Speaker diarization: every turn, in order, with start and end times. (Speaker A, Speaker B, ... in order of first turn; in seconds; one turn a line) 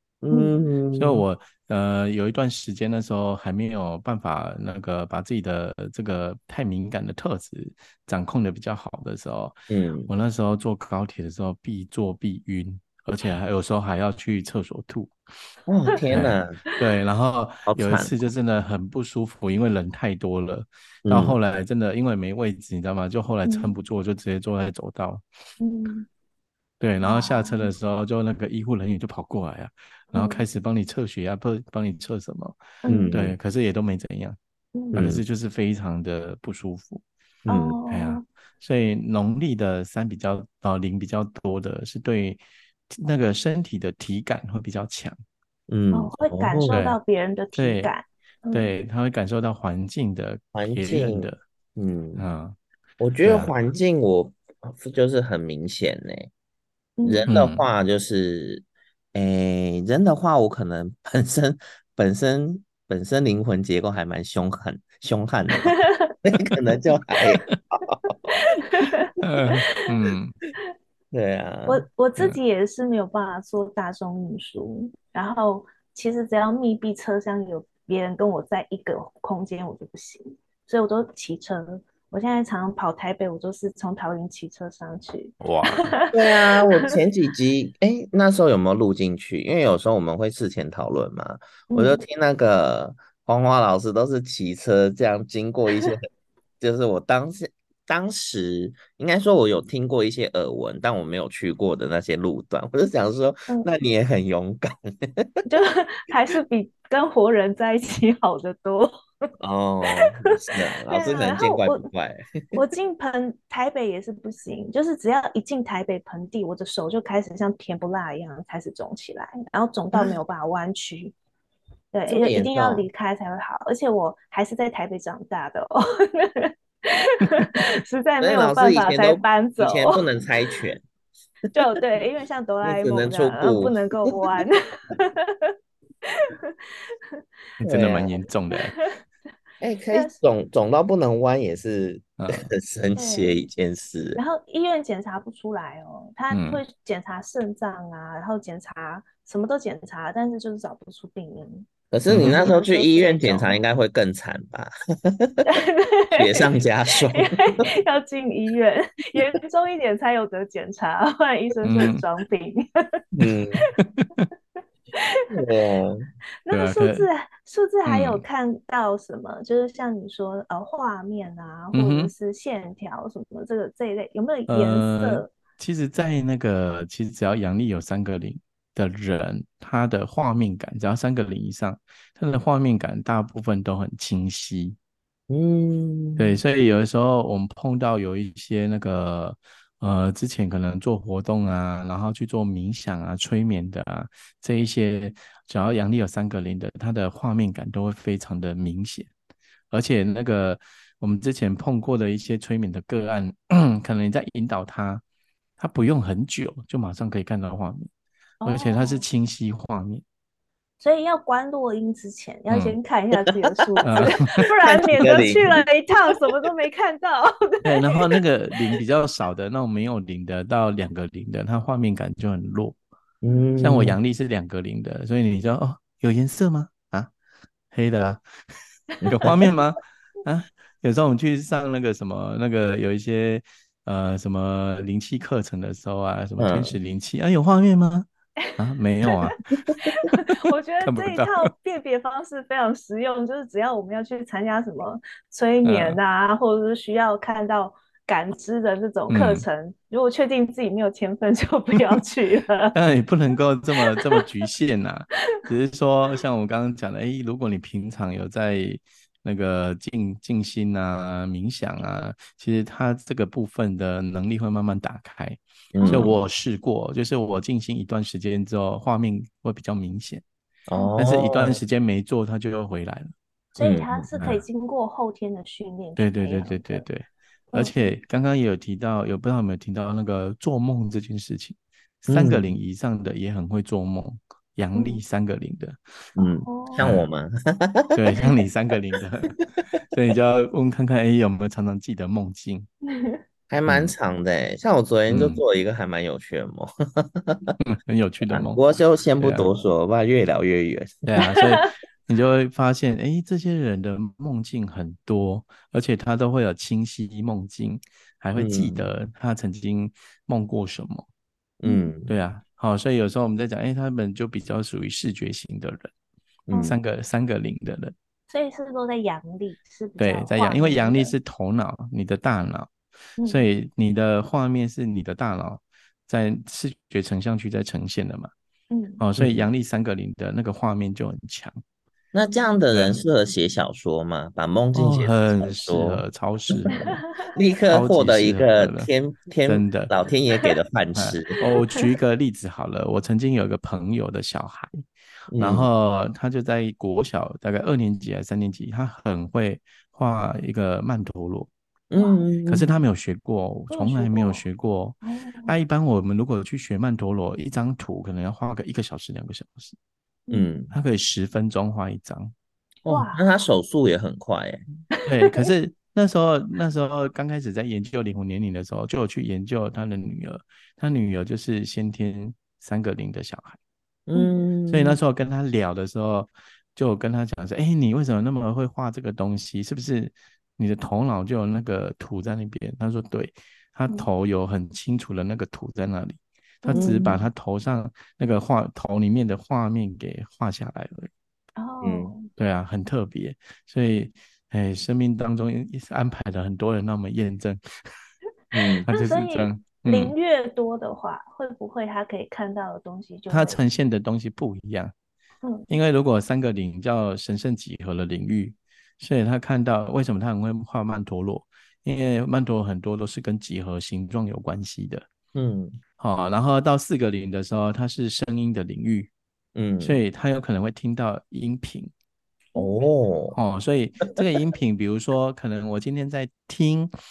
Speaker A: 0.2-1.2
Speaker B: 0.9-9.6
Speaker A: 9.7-10.1
Speaker B: 10.1-15.1
Speaker A: 15.7-16.6
Speaker B: 16.1-25.2
Speaker A: 17.7-18.1
Speaker A: 21.1-21.4
Speaker C: 23.4-23.7
Speaker C: 25.6-26.1
Speaker B: 26.8-34.4
Speaker C: 27.0-27.7
Speaker C: 30.1-30.4
Speaker C: 32.8-33.1
Speaker A: 32.9-33.4
Speaker C: 34.7-35.0
Speaker B: 34.9-37.0
Speaker A: 34.9-35.2
Speaker A: 37.4-37.8
Speaker C: 37.5-38.2
Speaker B: 37.9-45.2
Speaker A: 45.7-46.7
Speaker C: 45.9-48.7
Speaker B: 46.7-47.0
Speaker B: 47.5-47.9
Speaker B: 48.5-51.4
Speaker A: 50.5-52.2
Speaker B: 52.2-52.6
Speaker A: 53.0-56.3
Speaker B: 53.2-53.5
Speaker C: 57.0-57.3
Speaker A: 57.0-68.1
Speaker B: 57.3-57.6
Speaker C: 65.7-66.1
Speaker C: 68.3-69.6
Speaker B: 69.2-70.3
Speaker A: 71.1-71.8
Speaker C: 71.7-86.9
Speaker B: 85.4-86.0
Speaker A: 86.1-96.1
Speaker C: 91.7-92.0
Speaker A: 96.6-105.4
Speaker C: 105.5-109.0
Speaker A: 109.4-112.5
Speaker C: 110.9-111.9
Speaker C: 112.5-121.1
Speaker C: 121.9-130.0
Speaker A: 122.1-122.9
Speaker A: 128.2-130.8
Speaker C: 131.5-135.5
Speaker A: 132.6-134.4
Speaker C: 136.1-137.2
Speaker B: 137.6-138.9
Speaker A: 137.6-138.1
Speaker C: 138.5-138.9
Speaker A: 139.6-144.2
Speaker B: 142.2-142.5
Speaker C: 142.9-143.4
Speaker C: 144.2-153.6
Speaker B: 146.3-146.6
Speaker A: 151.9-155.4
Speaker B: 152.1-152.4
Speaker C: 155.4-163.0
Speaker A: 156.1-157.6
Speaker B: 161.6-162.0
Speaker A: 163.1-163.6
Speaker B: 164.0-164.2
Speaker C: 164.9-165.3
Speaker A: 165.3-166.1
Speaker C: 166.4-175.3
Speaker B: 166.5-167.1
Speaker B: 167.8-168.2
Speaker B: 171.7-172.1
Speaker B: 174.5-184.8
Speaker A: 185.3-186.4
Speaker B: 186.2-199.1
Speaker B: 199.7-205.0
Speaker B: 205.6-207.9
Speaker C: 208.4-209.0
Speaker B: 208.4-210.0
Speaker C: 210.8-218.2
Speaker B: 212.5-212.8
Speaker A: 213.8-214.1
Speaker B: 213.8-214.5
Speaker A: 214.6-215.6
Speaker B: 217.6-222.8
Speaker A: 223.2-224.0
Speaker B: 223.6-227.1
Speaker B: 227.7-228.2
Speaker A: 229.0-229.5
Speaker B: 229.0-241.5
Speaker A: 236.4-236.8
Speaker C: 238.4-252.8
Speaker B: 245.6-246.0
Speaker B: 249.1-249.4
Speaker B: 252.7-270.2
Speaker C: 253.8-254.2
Speaker A: 265.7-266.1
Speaker C: 265.8-266.1
Speaker A: 270.7-271.6
Speaker C: 270.7-271.0
Speaker B: 271.0-273.1
Speaker C: 273.5-276.8
Speaker A: 273.6-274.1
Speaker B: 274.2-274.4
Speaker B: 276.0-285.8
Speaker C: 277.5-277.9
Speaker A: 282.1-282.5
Speaker C: 284.7-285.0
Speaker A: 286.1-288.0
Speaker C: 286.2-286.8
Speaker B: 286.8-287.1
Speaker B: 287.9-292.7
Speaker C: 292.8-293.2
Speaker A: 293.5-297.5
Speaker B: 293.7-293.9
Speaker B: 295.1-295.4
Speaker B: 297.6-298.6
Speaker A: 298.3-301.0
Speaker B: 299.2-299.5
Speaker B: 301.1-311.1
Speaker C: 301.2-301.7
Speaker A: 308.4-308.9
Speaker A: 311.6-312.1
Speaker C: 311.6-311.9
Speaker B: 312.1-315.9
Speaker A: 316.5-316.8
Speaker C: 316.5-316.8
Speaker B: 316.6-317.9
Speaker C: 318.3-321.1
Speaker B: 320.0-322.7
Speaker C: 323.2-323.4
Speaker B: 323.2-328.3
Speaker C: 328.7-329.0
Speaker B: 329.0-331.6
Speaker A: 329.2-329.5
Speaker A: 332.1-341.4
Speaker B: 334.7-336.9
Speaker C: 336.7-337.0
Speaker B: 337.7-338.9
Speaker B: 339.5-339.9
Speaker B: 340.9-344.8
Speaker A: 345.3-345.7
Speaker B: 345.4-351.5
Speaker A: 351.9-352.7
Speaker C: 351.9-352.2
Speaker B: 352.4-359.8
Speaker C: 353.7-354.4
Speaker C: 355.0-355.5
Speaker A: 360.3-360.7
Speaker B: 360.7-362.3
Speaker A: 362.9-364.6
Speaker C: 362.9-363.2
Speaker C: 364.9-365.4
Speaker B: 365.0-373.6
Speaker A: 374.1-375.0
Speaker B: 374.7-391.1
Speaker C: 386.6-387.2
Speaker A: 386.7-387.2
Speaker C: 391.6-392.3
Speaker A: 391.8-392.1
Speaker B: 392.4-397.9
Speaker A: 398.5-398.9
Speaker B: 398.9-400.1
Speaker C: 398.9-403.6
Speaker B: 403.3-404.9
Speaker B: 405.7-415.1
Speaker A: 415.3-415.8
Speaker B: 416.0-419.1
Speaker A: 419.5-420.0
Speaker B: 419.8-421.9
Speaker A: 422.5-423.4
Speaker B: 423.3-426.9